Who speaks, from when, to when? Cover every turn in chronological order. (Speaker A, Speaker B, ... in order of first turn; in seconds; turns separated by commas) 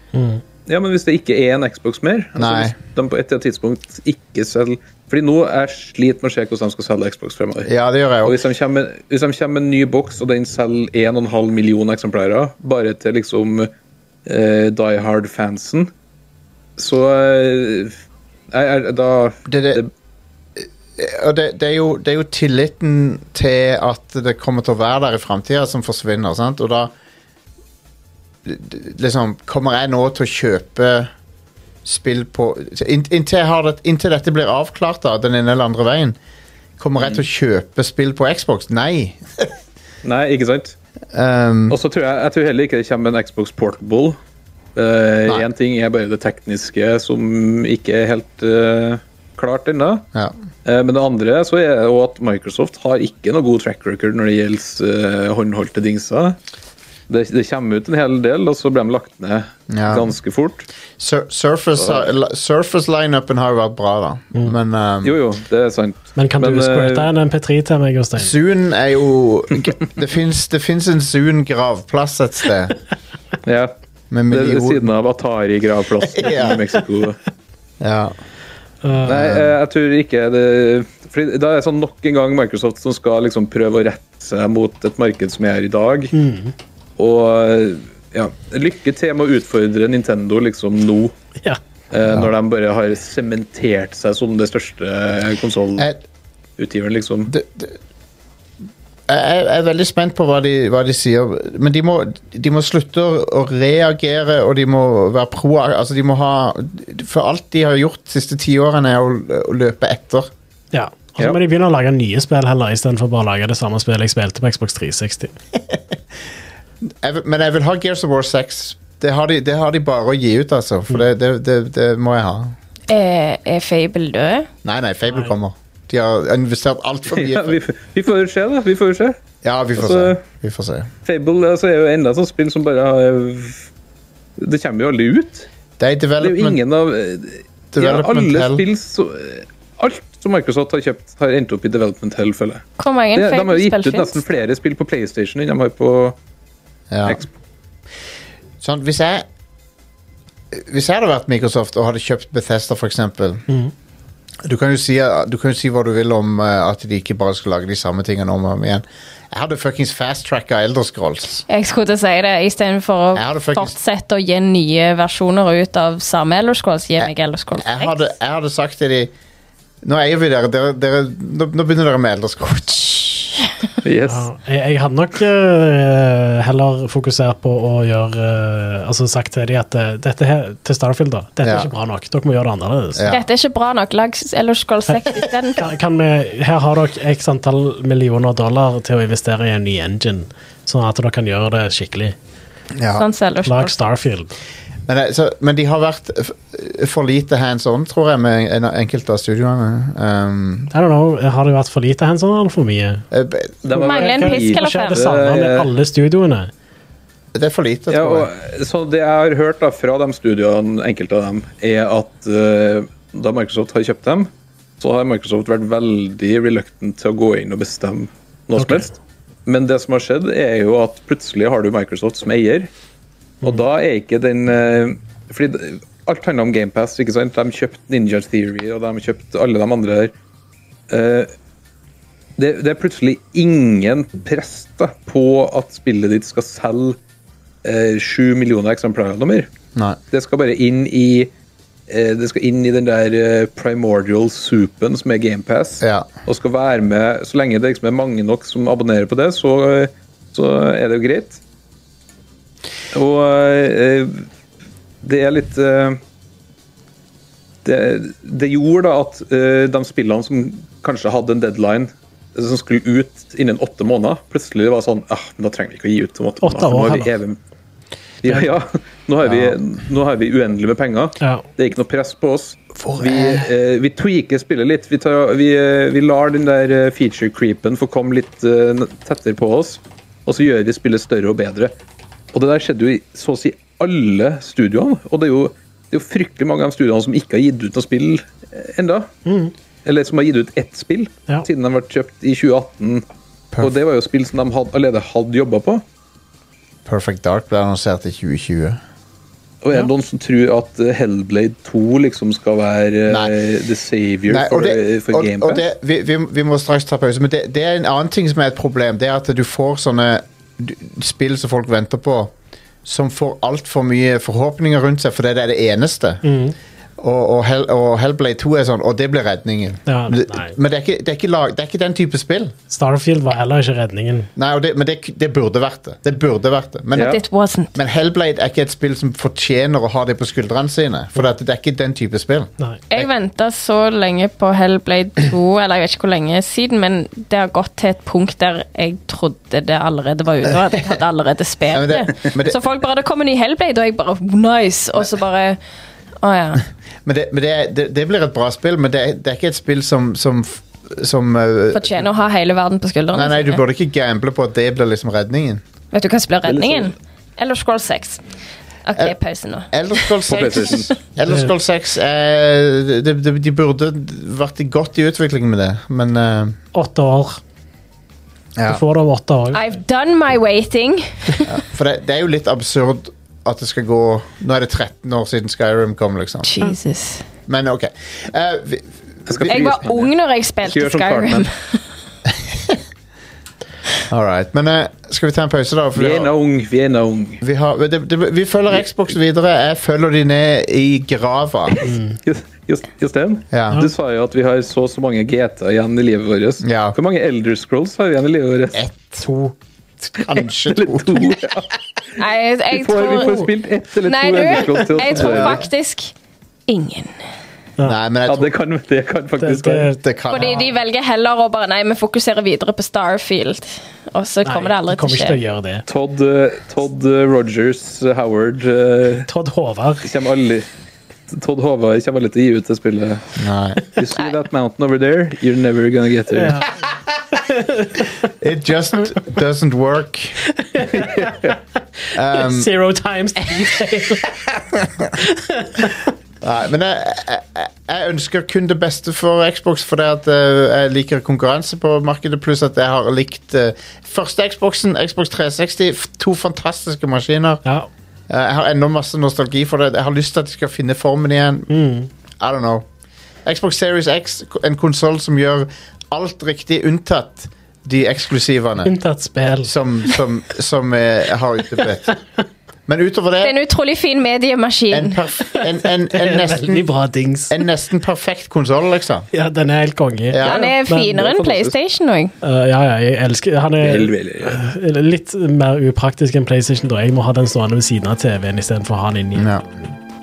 Speaker A: 0.1-0.4, Speaker B: 0.7-7.7, Speaker C: 2.4-2.7, Speaker C: 7.7-8.4, Speaker B: 8.2-13.7, Speaker B: 14.3-15.9, Speaker B: 16.8-17.9, Speaker B: 18.5-19.9, Speaker C: 19.5-19.8, Speaker C: 20.6-26.9, Speaker C: 28.4-31.1, Speaker C: 31.9-36.2, Speaker C: 36.8-39.5, Speaker B: 40.0-40.8, Speaker C: 41.1-41.8, Speaker B: 41.7-44.2, Speaker B: 44.8-50.1, Speaker B: 50.6-56.4, Speaker B: 57.1-60.7, Speaker C: 59.7-60.1, Speaker C: 61.0-65.2, Speaker B: 61.8-62.1, Speaker B: 65.0-67.1, Speaker A: 66.2-68.3, Speaker C: 68.2-72.8, Speaker B: 73.4-73.7, Speaker C: 74.1-74.9, Speaker B: 74.3-77.2, Speaker C: 76.1-76.6, Speaker C: 77.8-78.1, Speaker A: 78.8-79.2, Speaker C: 79.0-79.5, Speaker B: 79.0-86.2, Speaker A: 86.1-86.5, Speaker B: 87.0-91.1, Speaker B: 91.9-95.9, Speaker B: 96.6-97.3, Speaker C: 97.3-97.8, Speaker C: 99.1-110.3, Speaker A: 110.7-115.3, Speaker C: 116.9-122.5, Speaker D: 122.9-124.5, Speaker C: 124.6-127.6, Speaker B: 127.1-129.2, Speaker C: 129.4-130.9, Speaker B: 129.8-130.2, Speaker B: 131.1-133.7, Speaker B: 134.4-135.5, Speaker C: 135.8-136.6, Speaker B: 136.2-146.2, Speaker C: 137.7-138.6, Speaker D: 142.8-144.2, Speaker C: 146.9-147.2, Speaker C: 148.6-149.3, Speaker C: 150.5-153.4, Speaker C: 154.4-161.4, Speaker D: 161.5-168.0, Speaker C: 163.1-163.8, Speaker C: 167.0-169.1, Speaker C: 169.8-173.3, Speaker B: 173.8-174.3, Speaker A: 174.1-183.1, Speaker C: 181.4-181.7, Speaker C: 182.9-183.2, Speaker D: 183.1-185.7, Speaker A: 185.6-192.2, Speaker C: 192.8-193.1, Speaker D: 192.9-193.8, Speaker A: 193.4-194.4, Speaker C: 194.9-200.7, Speaker A: 200.7-203.1, Speaker C: 203.1-203.8, Speaker B: 203.6-205.7, Speaker D: 203.7-205.0, Speaker A: 204.0-206.5, Speaker C: 207.3-208.3, Speaker B: 207.9-214.3, Speaker B: 214.8-218.9, Speaker A: 218.6-218.9, Speaker B: 219.5-222.7, Speaker B: 223.4-230.1, Speaker B: 230.9-231.3, Speaker B: 232.4-237.0, Speaker B: 237.6-239.5, Speaker B: 240.1-241.3, Speaker B: 241.9-251.4, Speaker C: 245.8-246.1, Speaker B: 252.9-254.3, Speaker B: 255.0-256.0, Speaker B: 257.6-267.4, Speaker A: 266.4-267.1, Speaker B: 268.2-281.7, Speaker C: 269.3-269.6, Speaker A: 271.2-271.4, Speaker C: 272.8-273.5, Speaker B: 282.3-289.1, Speaker A: 289.2-289.5, Speaker B: 289.9-293.0, Speaker B: 293.6-295.8, Speaker C: 296.9-298.8, Speaker B: 299.6-305.7, Speaker C: 304.3-312.3, Speaker C: 312.9-316.2, Speaker A: 316.2-316.6, Speaker C: 317.0-322.5, Speaker A: 319.9-320.6, Speaker A: 322.7-324.3, Speaker C: 324.4-327.2, Speaker B: 326.9-327.2, Speaker D: 326.9-327.8, Speaker C: 327.8-333.1, Speaker D: 332.9-345.6, Speaker C: 340.6-341.0, Speaker C: 341.7-342.6, Speaker D: 346.2-346.6, Speaker C: 347.1-352.1, Speaker D: 351.7-353.6, Speaker C: 353.1-355.6, Speaker D: 355.9-358.2, Speaker B: 356.4-356.9, Speaker D: 358.9-360.9, Speaker C: 359.7-366.6, Speaker B: 360.3-360.9, Speaker A: 361.2-361.5, Speaker A: 366.7-367.4, Speaker C: 368.6-368.8, Speaker A: 368.7-369.6, Speaker D: 369.5-371.5, Speaker C: 371.4-376.6, Speaker D: 376.4-377.2, Speaker C: 377.5-379.8, Speaker B: 379.3-381.5, Speaker D: 379.5-381.8, Speaker C: 382.3-382.8, Speaker C: 384.1-386.3, Speaker B: 385.9-387.4, Speaker C: 387.4-391.9, Speaker A: 391.8-392.2, Speaker B: 392.2-398.8, Speaker C: 393.5-393.9, Speaker C: 396.6-397.0, Speaker C: 398.7-399.3, Speaker A: 399.2-399.5, Speaker C: 400.1-401.4, Speaker B: 400.7-401.7, Speaker D: 402.2-403.4, Speaker B: 402.7-405.6, Speaker D: 404.1-406.1, Speaker C: 405.2-405.7, Speaker D: 406.7-407.1, Speaker C: 407.8-408.5, Speaker B: 408.3-409.9, Speaker A: 409.4-410.6, Speaker C: 410.0-410.7, Speaker D: 410.3-415.4, Speaker A: 414.4-415.8, Speaker B: 415.9-419.3, Speaker A: 419.3-420.1, Speaker B: 420.0-420.7, Speaker B: 421.3-426.6, Speaker C: 423.4-423.8, Speaker A: 426.3-426.8, Speaker A: 427.3-428.2, Speaker C: 428.2-430.4, Speaker A: 430.5-431.6, Speaker C: 432.1-432.7, Speaker A: 432.3-434.4, Speaker A: 435.2-436.0, Speaker C: 436.4-447.6, Speaker C: 448.3-451.7, Speaker A: 451.7-452.1, Speaker C: 452.4-452.9, Speaker C: 453.4-458.9, Speaker A: 458.8-459.7, Speaker C: 459.6-462.2, Speaker C: 462.9-463.6, Speaker D: 463.4-465.2, Speaker C: 464.9-466.9, Speaker A: 465.5-467.6, Speaker C: 467.5-469.3, Speaker A: 469.3-471.2, Speaker C: 470.3-470.6, Speaker D: 470.4-472.3, Speaker B: 471.1-471.8, Speaker A: 472.4-479.9, Speaker B: 473.8-474.6, Speaker C: 479.4-479.6